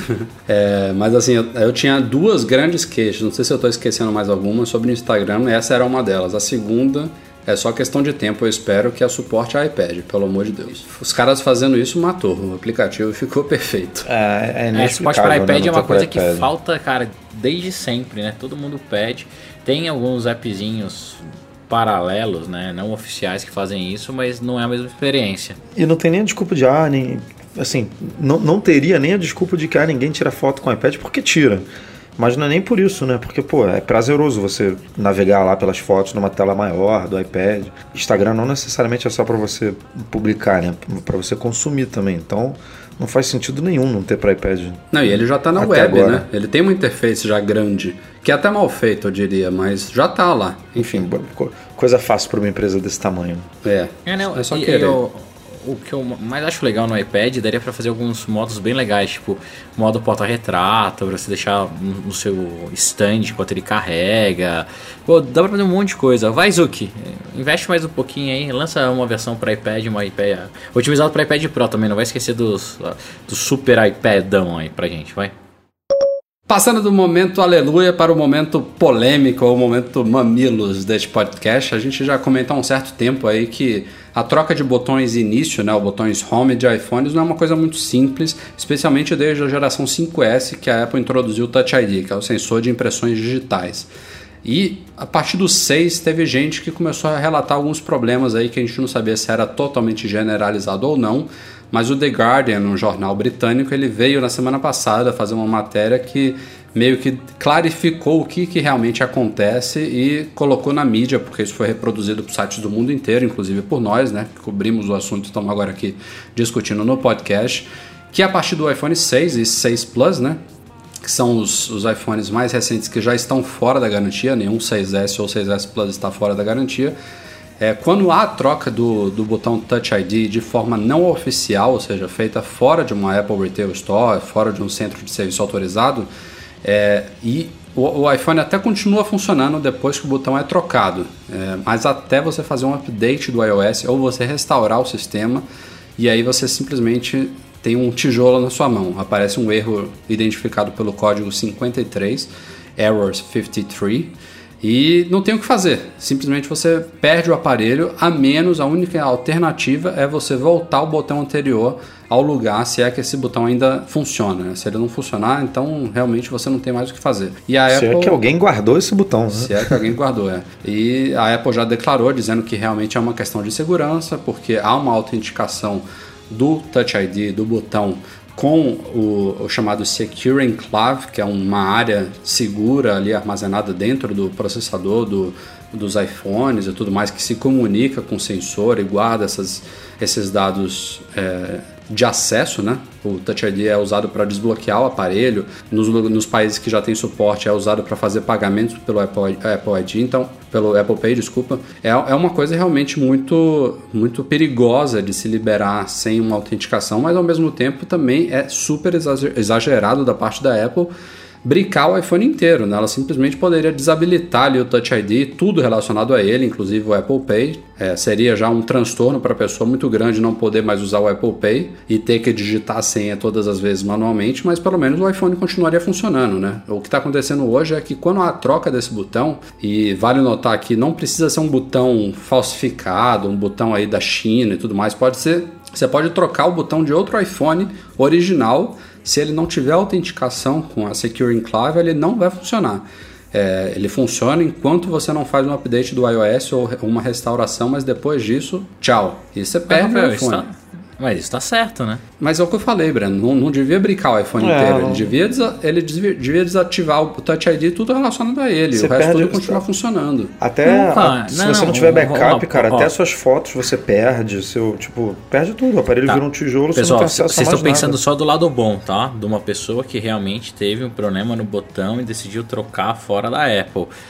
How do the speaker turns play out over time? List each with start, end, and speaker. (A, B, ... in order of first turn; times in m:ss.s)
0:00.5-0:14.1 A
0:14.1-0:16.5 B
0:14.7-0:25.6 C
0:25.8-0:46.3 B
0:44.9-0:51.0 A
0:50.8-0:53.5 B
0:53.6-0:55.0 A
0:54.1-1:15.3 C
1:16.5-1:33.9 A
1:34.4-2:00.4 A
2:01.0-2:07.0 A
2:07.6-2:16.1 A
2:16.6-2:25.4 A
2:26.0-2:48.2 A
2:47.7-2:49.8 B
2:49.3-3:30.9 A
3:31.4-4:10.5 A
4:09.7-4:12.0 C
4:12.2-4:20.3 A
4:14.4-4:15.1 B
4:18.7-4:19.6 B
4:20.4-4:28.0 B
4:20.6-4:22.9 C
4:26.7-4:33.9 C